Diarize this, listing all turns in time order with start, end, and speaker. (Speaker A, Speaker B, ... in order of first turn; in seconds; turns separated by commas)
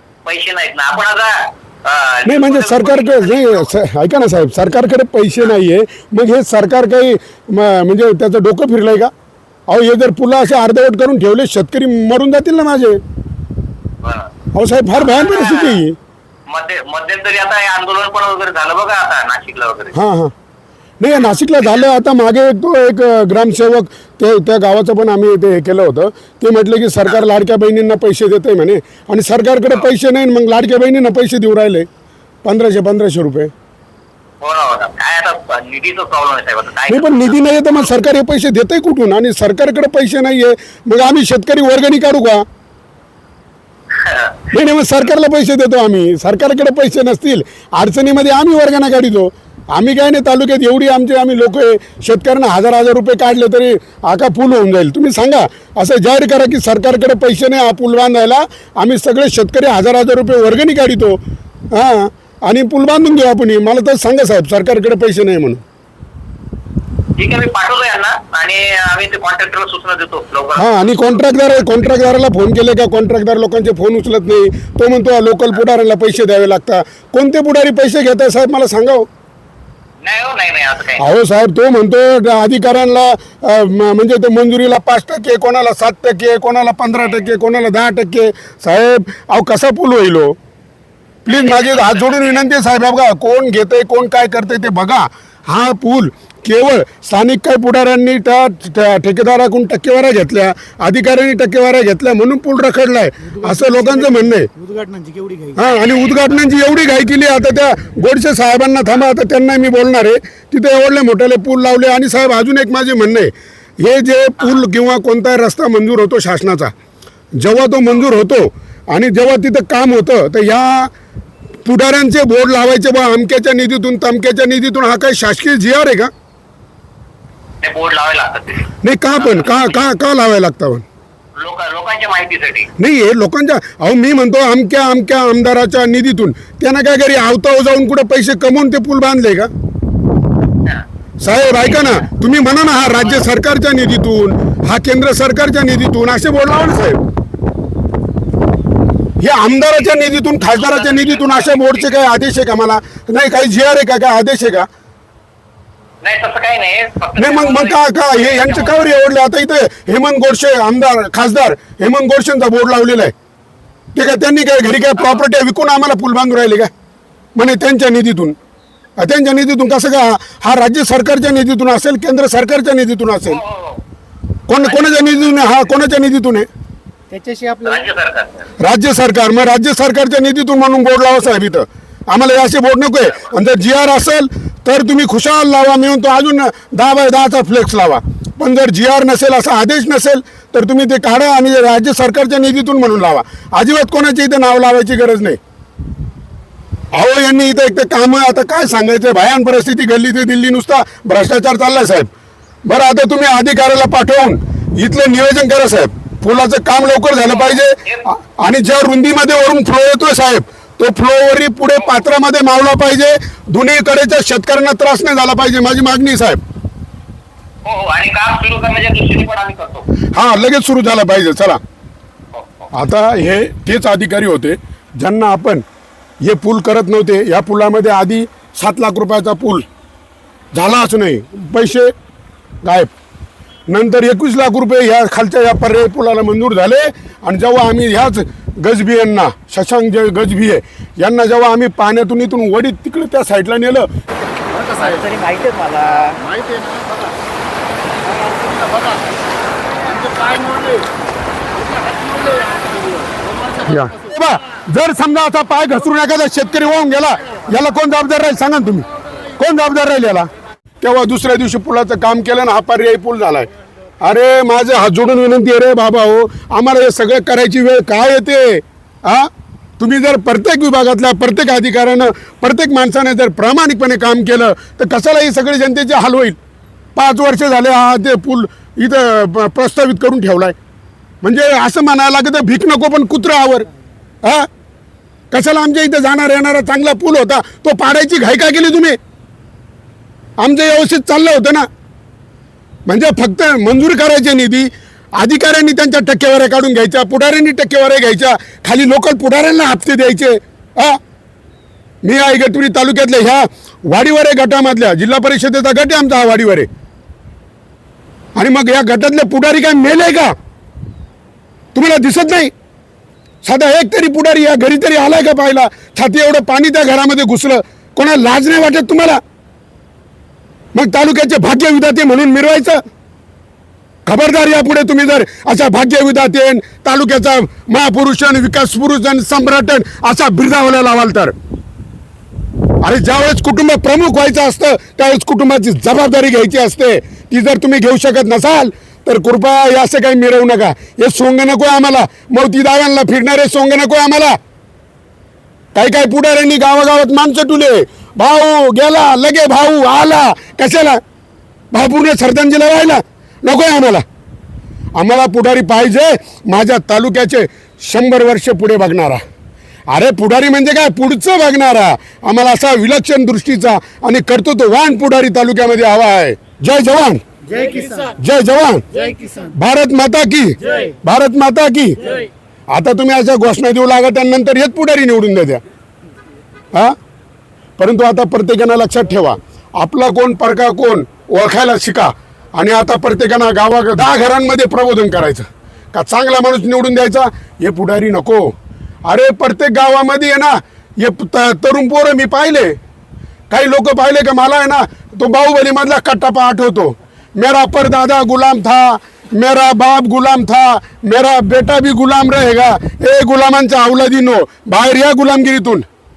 Speaker A: 0.2-3.7, Speaker B: 2.2-9.1, Speaker B: 9.7-13.0, Speaker A: 14.0-14.3, Speaker B: 14.5-16.0, Speaker A: 14.9-15.8, Speaker A: 16.5-19.9, Speaker B: 19.9-20.3, Speaker B: 21.0-31.9, Speaker A: 21.1-21.9, Speaker B: 32.4-33.5, Speaker A: 34.4-37.9, Speaker B: 36.9-42.4, Speaker A: 43.9-44.5, Speaker B: 44.5-61.2, Speaker B: 61.7-65.6, Speaker A: 67.2-71.2, Speaker B: 70.6-79.1, Speaker A: 80.0-81.1, Speaker B: 81.0-90.3, Speaker B: 91.2-104.5, Speaker A: 91.3-92.5, Speaker C: 103.3-105.7, Speaker B: 105.5-116.7, Speaker A: 105.7-106.4, Speaker B: 117.4-120.9, Speaker B: 121.7-126.1, Speaker A: 127.6-129.9, Speaker B: 128.8-130.8, Speaker A: 131.4-132.7, Speaker B: 132.8-139.5, Speaker B: 141.2-147.0, Speaker B: 149.2-154.7, Speaker A: 150.5-151.9, Speaker A: 156.0-158.9, Speaker B: 157.2-163.1, Speaker B: 163.9-166.7, Speaker B: 167.3-168.4, Speaker B: 169.0-173.4, Speaker A: 173.3-173.8, Speaker B: 174.5-176.5, Speaker A: 174.6-175.7, Speaker C: 177.1-177.8, Speaker A: 177.7-178.5, Speaker B: 178.6-195.4, Speaker B: 196.9-202.1, Speaker B: 202.7-216.4, Speaker A: 207.2-208.1, Speaker A: 217.7-219.9, Speaker B: 220.1-221.6, Speaker A: 222.3-222.7, Speaker B: 222.7-225.6, Speaker B: 226.2-229.7, Speaker B: 230.5-231.9, Speaker B: 232.6-232.9, Speaker B: 233.7-243.9, Speaker C: 244.7-246.3, Speaker B: 253.7-260.3, Speaker B: 260.8-263.5, Speaker B: 264.0-276.4, Speaker B: 277.0-280.6, Speaker B: 281.2-283.7, Speaker B: 284.2-284.5, Speaker B: 285.3-289.0, Speaker B: 290.4-291.7, Speaker B: 292.9-301.0, Speaker B: 302.0-306.7, Speaker B: 308.4-310.3, Speaker B: 311.8-312.5, Speaker B: 313.4-319.2, Speaker B: 320.7-322.8, Speaker B: 324.1-331.3, Speaker B: 332.8-344.4, Speaker B: 345.8-351.0, Speaker B: 351.7-354.0, Speaker B: 355.0-359.2, Speaker B: 359.9-367.2, Speaker C: 367.5-368.1, Speaker B: 368.1-372.2, Speaker B: 372.7-375.6, Speaker B: 377.8-388.5, Speaker B: 389.1-392.8, Speaker B: 393.5-405.9